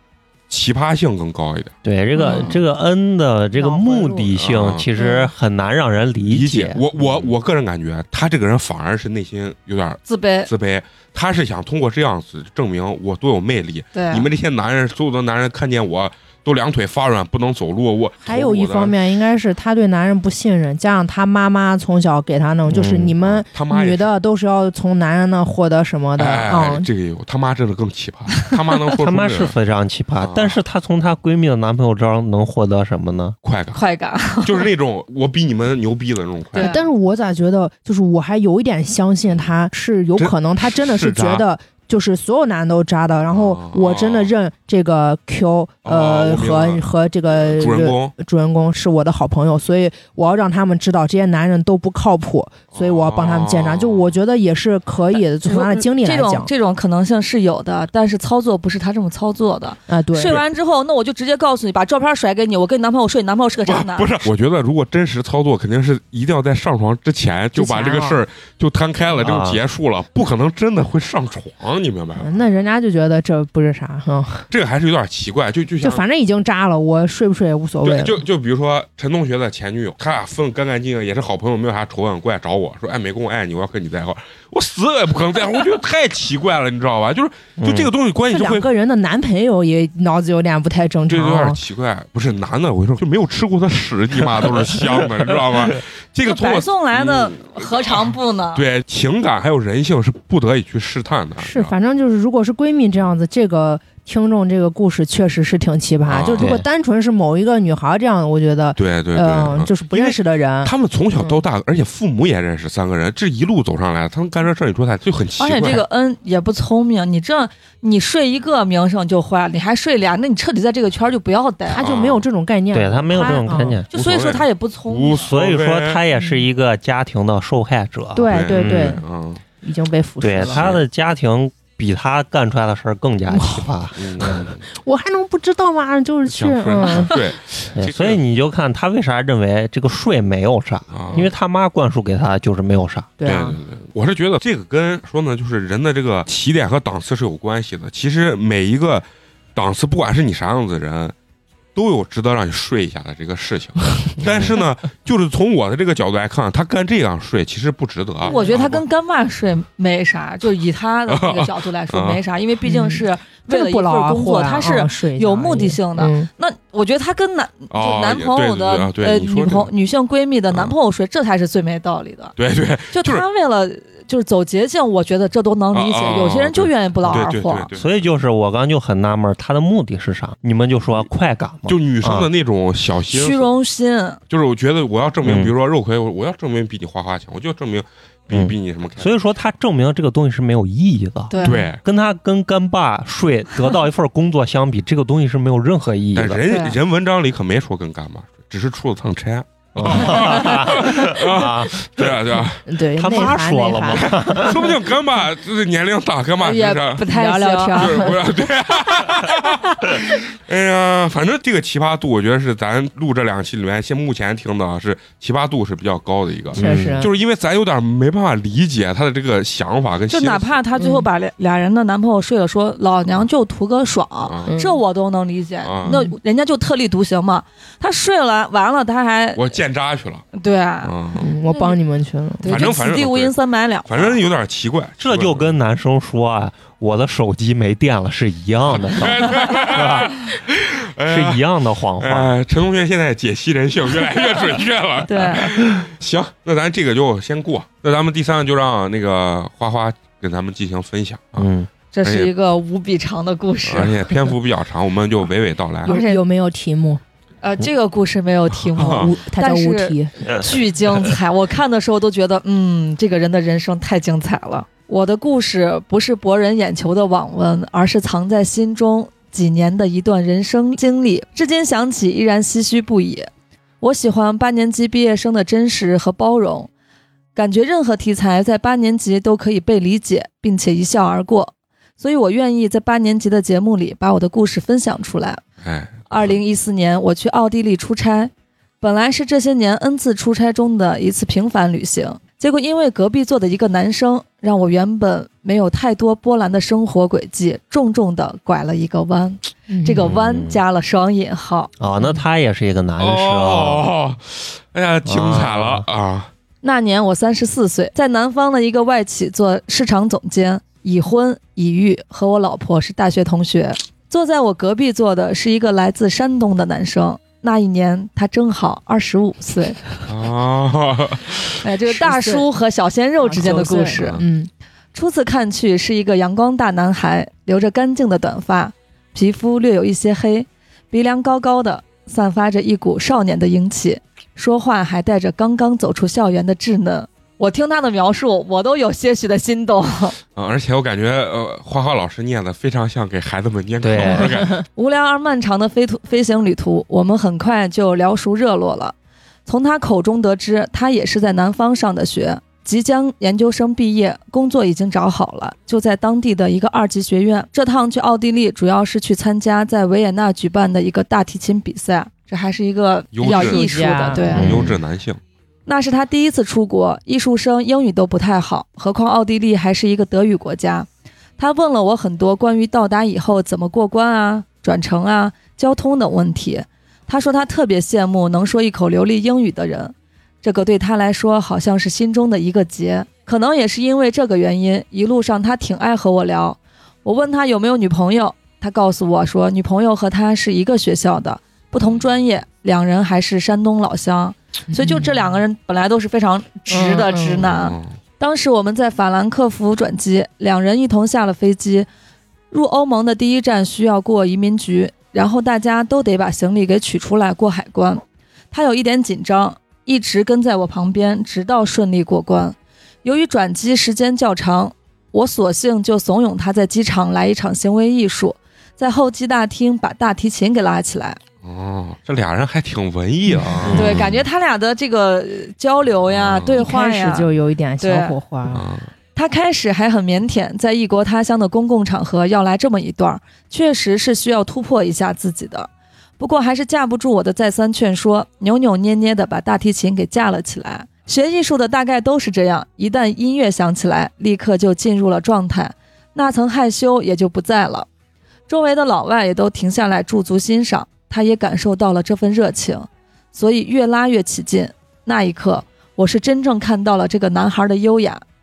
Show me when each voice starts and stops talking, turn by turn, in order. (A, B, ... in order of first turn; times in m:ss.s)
0:00.5-0:01.7 A
0:01.8-0:07.3 B
0:02.2-0:02.6 C
0:02.2-0:02.5 D
0:03.6-0:04.4 D
0:04.4-0:04.9 A
0:06.3-0:19.0 A
0:10.1-0:10.5 C
0:13.9-0:14.3 C
0:18.2-0:26.9 D
0:22.7-0:23.2 B
0:23.2-0:24.1 A
0:26.2-0:29.5 A
0:29.0-0:33.4 B
0:30.2-0:30.6 A
0:33.4-0:33.8 A
0:33.7-0:34.7 C
0:34.4-0:36.8 A
0:36.5-0:36.8 C
0:36.6-0:56.5 D
0:40.2-0:41.4 A
0:43.3-0:44.3 A
0:45.8-0:46.9 A
0:47.4-0:48.1 A
0:52.7-0:54.1 A
0:55.4-1:04.1 C
0:59.9-1:00.4 D
1:03.6-1:12.3 A
1:07.6-1:08.2 D
1:09.2-1:09.6 B
1:12.2-1:14.5 D
1:14.5-1:16.0 A
1:15.8-1:18.2 D
1:17.8-1:28.7 A
1:27.6-1:27.9 B
1:28.3-1:31.6 D
1:31.1-1:41.7 A
1:36.2-1:38.6 C
1:41.4-1:51.4 D
1:46.1-1:46.5 A
1:46.4-1:46.7 B
1:48.8-1:55.8 A
1:55.4-2:01.9 C
2:01.7-2:03.8 D
2:01.8-2:02.2 A
2:02.7-2:03.9 B
2:03.9-2:05.3 C
2:03.9-2:06.0 A
2:05.2-2:09.0 B
2:06.2-2:06.4 D
2:08.2-2:09.0 D
2:08.3-2:09.4 A
2:09.6-2:10.6 D
2:10.2-2:14.5 B
2:10.5-2:10.8 A
2:13.3-2:13.7 D
2:14.0-2:14.6 A
2:14.7-2:17.2 D
2:16.3-2:18.2 A
2:17.7-2:23.2 B
2:20.9-2:21.3 A
2:23.2-2:23.6 D
2:23.2-2:31.2 A
2:31.8-2:38.8 A
2:38.2-2:52.4 C
2:38.3-2:38.6 D
2:41.1-2:42.2 A
2:42.6-2:46.3 D
2:47.7-2:49.7 A
2:52.4-2:53.2 A
2:52.9-2:57.7 C
2:55.7-2:57.9 A
2:57.1-3:02.3 B
3:01.7-3:03.5 A
3:03.1-3:04.2 C
3:04.3-3:09.1 A
3:05.2-3:05.5 B
3:08.3-3:16.4 B
3:11.3-3:11.7 C
3:11.4-3:11.8 A
3:16.2-3:22.6 A
3:16.5-3:16.8 C
3:19.8-3:22.1 B
3:22.7-3:24.5 D
3:23.0-3:24.8 B
3:23.9-3:27.0 A
3:26.4-3:28.2 C
3:27.1-3:28.2 D
3:27.7-3:40.6 A
3:36.5-3:37.1 B
3:36.6-3:37.1 D
3:40.1-3:49.6 C
3:40.8-3:41.1 D
3:44.2-3:44.6 A
3:44.5-3:44.8 D
3:45.6-3:46.0 A
3:45.9-3:46.1 D
3:49.4-3:50.3 A
3:50.3-3:50.9 C
3:50.8-3:51.3 A
3:51.2-3:52.7 D
3:51.5-3:51.8 C
3:52.4-3:54.2 C
3:52.4-3:53.3 A
3:53.9-3:55.5 A
3:55.0-4:00.2 B
3:58.7-4:01.4 A
4:01.1-4:02.3 B
4:02.0-4:11.5 A
4:05.1-4:05.6 C
4:11.4-4:11.7 B
4:11.9-4:14.3 C
4:12.0-4:12.3 A
4:13.6-4:16.0 A
4:15.8-4:16.2 C
4:15.9-4:17.0 D
4:17.4-4:33.3 C
4:18.7-4:19.1 A
4:18.8-4:20.1 D
4:33.8-4:36.7 C
4:37.4-4:45.4 C
4:45.6-4:46.4 A
4:46.1-5:01.7 C
4:59.7-5:00.0 D
5:00.0-5:00.6 B
5:01.8-5:03.9 B
5:03.0-5:06.3 A
5:05.1-5:05.8 B
5:06.6-5:20.1 C
5:20.1-5:21.6 A
5:21.6-5:24.2 C
5:21.9-5:22.4 D
5:23.2-5:24.5 D
5:24.0-5:24.2 A
5:24.9-5:40.2 C
5:40.4-5:44.6 A
5:43.8-5:44.5 B
5:44.8-5:49.0 C
5:49.5-6:04.7 C
6:03.1-6:05.2 A
6:03.2-6:04.5 D
6:04.3-6:04.8 B
6:05.7-6:10.9 C
6:11.4-6:41.9 C
6:34.7-6:35.3 D
6:36.7-6:37.4 D
6:37.4-6:38.0 A
6:42.5-7:01.2 C
7:01.4-7:04.2 A
7:03.3-7:03.7 D
7:03.6-7:04.1 B
7:03.7-7:07.3 C
7:06.1-7:06.6 A
7:06.6-7:08.6 D
7:07.8-7:08.2 C
7:08.5-7:08.9 A
7:09.2-7:27.9 C
7:28.5-7:38.2 C